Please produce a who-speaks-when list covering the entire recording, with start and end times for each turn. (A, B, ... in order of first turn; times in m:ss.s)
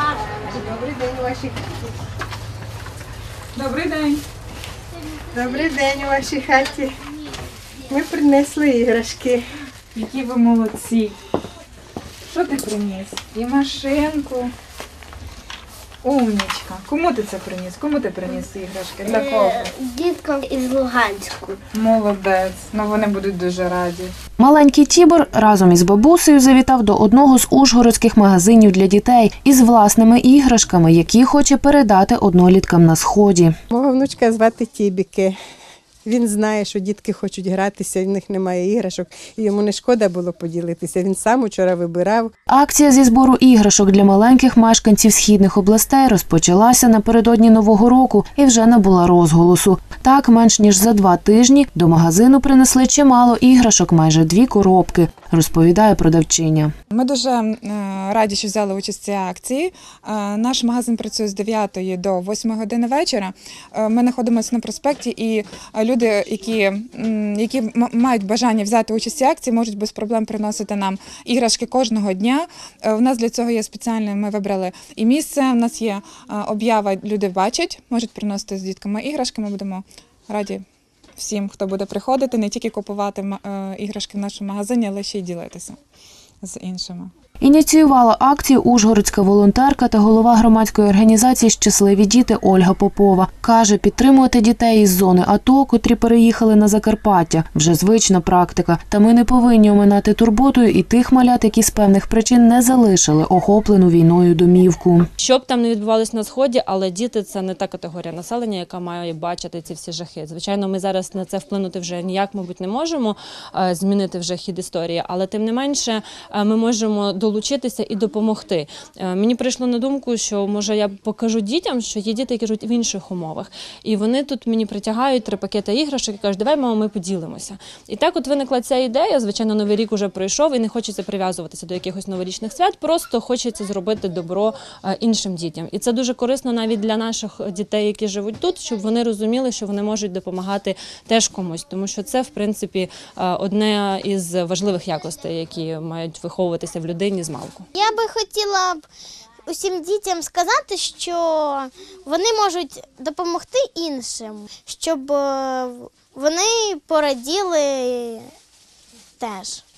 0:00.3-0:01.7 A
0:03.6-0:04.2 B
0:05.3-0:06.9 A
0:07.9-0:09.4 A
0:09.9-0:11.2 B
0:12.3-0:14.5 B
0:16.0-0:19.7 B
0:19.1-0:21.6 C
0:21.7-0:24.2 B
0:24.4-0:33.6 D
0:33.7-0:35.4 A
0:36.0-0:42.3 A
0:42.5-0:56.7 D
0:56.9-1:20.6 B
1:21.2-1:25.8 B
1:26.4-1:27.1 B
1:27.4-1:45.1 D
1:45.2-2:27.7 E
2:27.7-2:28.9 C
2:29.5-2:38.3 C
2:39.2-2:39.6 C